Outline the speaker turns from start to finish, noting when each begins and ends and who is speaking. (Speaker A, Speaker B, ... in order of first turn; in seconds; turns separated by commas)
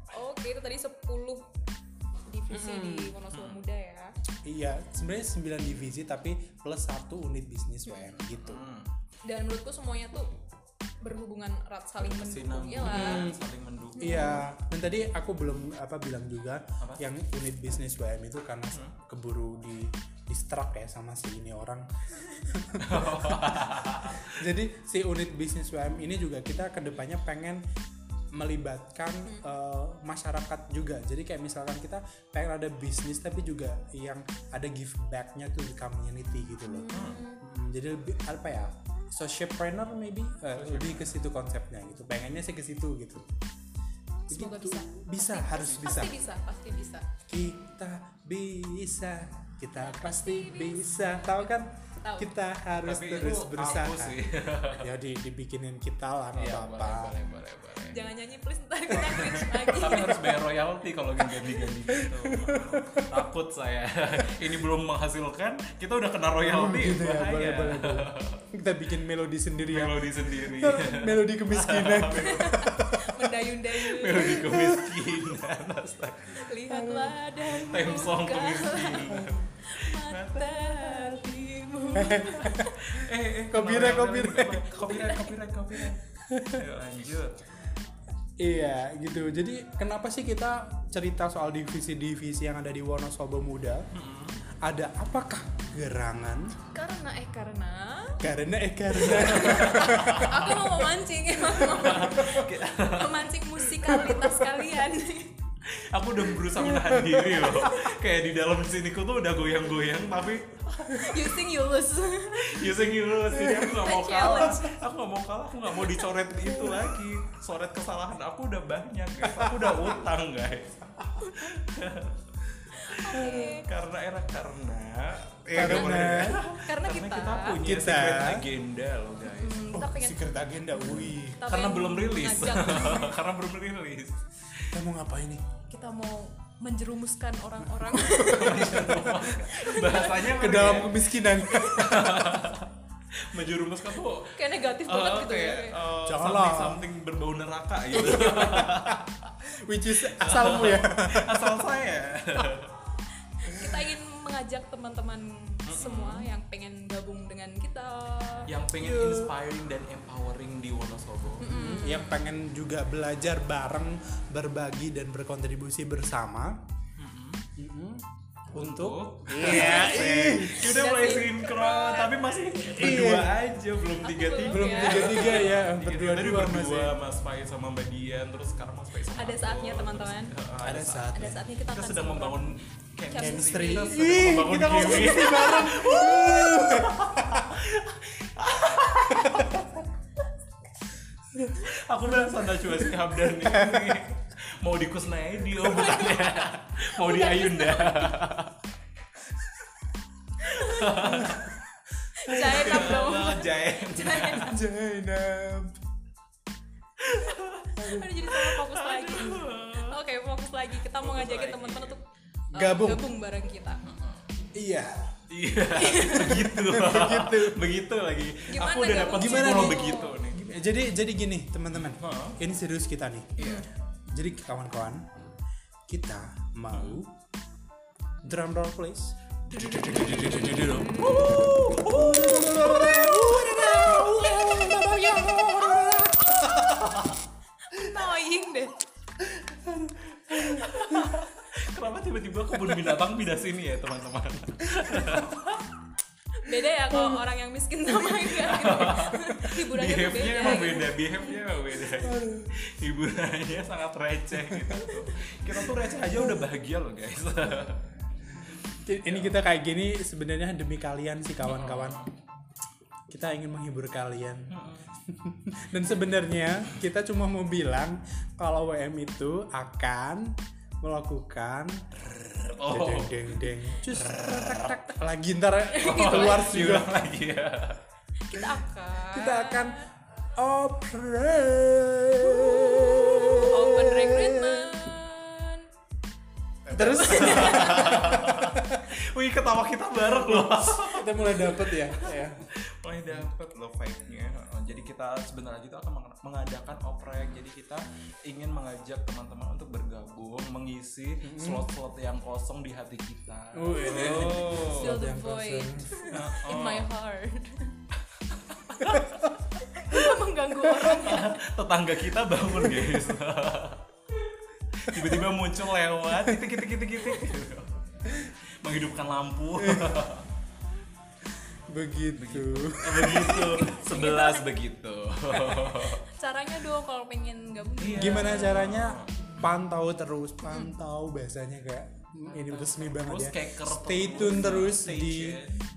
Speaker A: 0.1-1.4, Speaker A: 2.3-4.1, Speaker B: 2.5-3.1, Speaker C: 3.3-3.6, Speaker B: 4.5-8.6, Speaker A: 7.9-8.1, Speaker C: 8.2-8.9, Speaker A: 9.2-10.3, Speaker A: 11.0-13.3, Speaker C: 12.0-14.4, Speaker B: 12.8-13.4, Speaker A: 14.0-14.4, Speaker B: 14.0-27.6, Speaker C: 22.8-24.4, Speaker B: 28.3-43.3, Speaker A: 36.7-37.4, Speaker C: 36.9-37.2, Speaker C: 40.5-41.1, Speaker A: 44.3-47.1, Speaker B: 44.3-46.2, Speaker B: 47.3-54.2, Speaker A: 49.8-51.3, Speaker A: 52.0-52.3, Speaker C: 52.8-54.9, Speaker B: 54.8-57.2, Speaker C: 56.3-58.1, Speaker A: 57.9-60.3, Speaker C: 58.9-68.4, Speaker B: 61.7-63.2, Speaker B: 66.4-73.3, Speaker C: 69.7-72.6, Speaker A: 72.2-74.5, Speaker C: 73.8-76.5, Speaker B: 74.2-75.0, Speaker A: 76.3-82.9, Speaker B: 76.7-77.2, Speaker C: 77.5-81.2, Speaker B: 79.1-79.4, Speaker B: 82.0-82.7, Speaker C: 82.4-87.4, Speaker B: 83.5-84.9, Speaker A: 84.7-85.4, Speaker B: 86.2-86.7, Speaker B: 88.4-93.9, Speaker C: 93.9-94.4, Speaker B: 94.6-96.5, Speaker A: 96.7-98.2, Speaker B: 98.2-100.5, Speaker A: 98.9-105.3, Speaker C: 99.1-100.6, Speaker C: 101.5-103.7, Speaker B: 101.8-102.4, Speaker B: 103.9-104.5, Speaker C: 105.7-111.4, Speaker B: 106.6-107.7, Speaker A: 110.9-112.7, Speaker C: 112.4-122.2, Speaker B: 113.4-113.8, Speaker A: 113.4-114.8, Speaker B: 116.5-116.9, Speaker B: 119.3-120.0, Speaker A: 121.2-121.5, Speaker A: 122.8-123.7, Speaker C: 122.9-129.7, Speaker B: 123.1-123.5, Speaker B: 125.5-126.4, Speaker A: 126.4-127.6, Speaker B: 127.6-128.4, Speaker A: 129.3-130.2, Speaker B: 129.7-131.4, Speaker C: 130.8-134.8, Speaker A: 130.9-133.2, Speaker B: 134.7-135.4, Speaker A: 135.7-140.6, Speaker B: 137.9-139.3, Speaker C: 138.2-149.4, Speaker B: 140.2-142.2, Speaker A: 141.4-142.2, Speaker A: 144.3-145.8, Speaker B: 146.0-146.9, Speaker B: 147.9-151.6, Speaker C: 149.9-152.8, Speaker A: 153.4-158.5, Speaker C: 155.7-156.3, Speaker C: 158.5-161.5, Speaker B: 158.8-159.3, Speaker A: 161.4-162.2, Speaker B: 161.5-166.6, Speaker C: 167.0-167.5, Speaker B: 167.6-170.7, Speaker C: 168.6-189.8, Speaker A: 169.4-172.7, Speaker B: 172.7-173.4, Speaker A: 174.0-175.4, Speaker B: 174.5-177.0, Speaker A: 179.2-180.3, Speaker B: 180.6-181.4, Speaker A: 181.1-182.5, Speaker A: 183.1-184.1, Speaker B: 183.2-187.5, Speaker A: 184.7-185.8, Speaker B: 189.2-189.5, Speaker B: 191.3-194.0, Speaker C: 191.6-198.6, Speaker A: 195.6-198.2, Speaker A: 200.4-201.4, Speaker C: 200.5-201.5, Speaker B: 201.0-201.6, Speaker A: 202.2-204.5, Speaker B: 202.3-203.0, Speaker C: 202.3-204.6, Speaker B: 204.4-205.8, Speaker C: 207.0-207.8, Speaker B: 207.8-208.1, Speaker A: 207.8-212.0, Speaker C: 208.3-210.0, Speaker C: 210.9-212.0, Speaker B: 212.5-213.1, Speaker A: 212.6-213.8, Speaker C: 213.8-214.2, Speaker B: 214.6-215.1, Speaker C: 215.3-220.4, Speaker A: 215.8-216.6, Speaker B: 216.6-217.7, Speaker A: 218.5-220.2, Speaker B: 219.1-223.4, Speaker C: 221.9-222.4, Speaker C: 223.4-223.7, Speaker A: 223.4-223.7, Speaker B: 224.1-225.1, Speaker B: 225.9-227.1, Speaker C: 226.7-227.0, Speaker B: 228.2-236.9, Speaker C: 229.5-237.2, Speaker A: 229.6-231.5, Speaker A: 232.9-234.8, Speaker A: 237.7-238.7, Speaker C: 239.6-245.6, Speaker B: 239.7-241.1, Speaker B: 242.6-242.8, Speaker B: 244.7-245.3, Speaker A: 246.4-251.4, Speaker B: 246.9-247.2, Speaker C: 248.3-257.8, Speaker B: 252.0-252.5, Speaker B: 254.5-254.9, Speaker B: 258.8-262.1, Speaker C: 259.0-259.4, Speaker C: 261.4-262.1, Speaker B: 263.1-272.1, Speaker C: 264.5-264.9, Speaker C: 272.0-274.8, Speaker B: 272.7-277.0, Speaker A: 275.7-276.8, Speaker C: 275.8-277.8, Speaker A: 278.2-279.9, Speaker B: 279.1-279.8, Speaker B: 280.4-284.9, Speaker A: 283.4-285.7, Speaker C: 286.7-305.0, Speaker B: 286.7-288.9, Speaker A: 286.8-288.1, Speaker B: 290.2-292.5, Speaker B: 301.2-301.7, Speaker B: 303.5-306.3, Speaker A: 303.9-307.7, Speaker C: 306.1-306.9, Speaker C: 308.2-309.3, Speaker A: 309.6-311.4, Speaker C: 310.8-313.8, Speaker B: 312.6-312.9, Speaker C: 314.7-320.3, Speaker B: 314.9-315.2, Speaker B: 316.1-316.5, Speaker B: 319.6-320.0, Speaker B: 321.7-323.7, Speaker C: 322.2-326.0, Speaker A: 323.3-324.4, Speaker B: 325.4-325.6, Speaker A: 326.0-328.6, Speaker C: 327.8-329.3, Speaker B: 327.9-335.4, Speaker A: 330.5-330.7, Speaker C: 332.3-335.6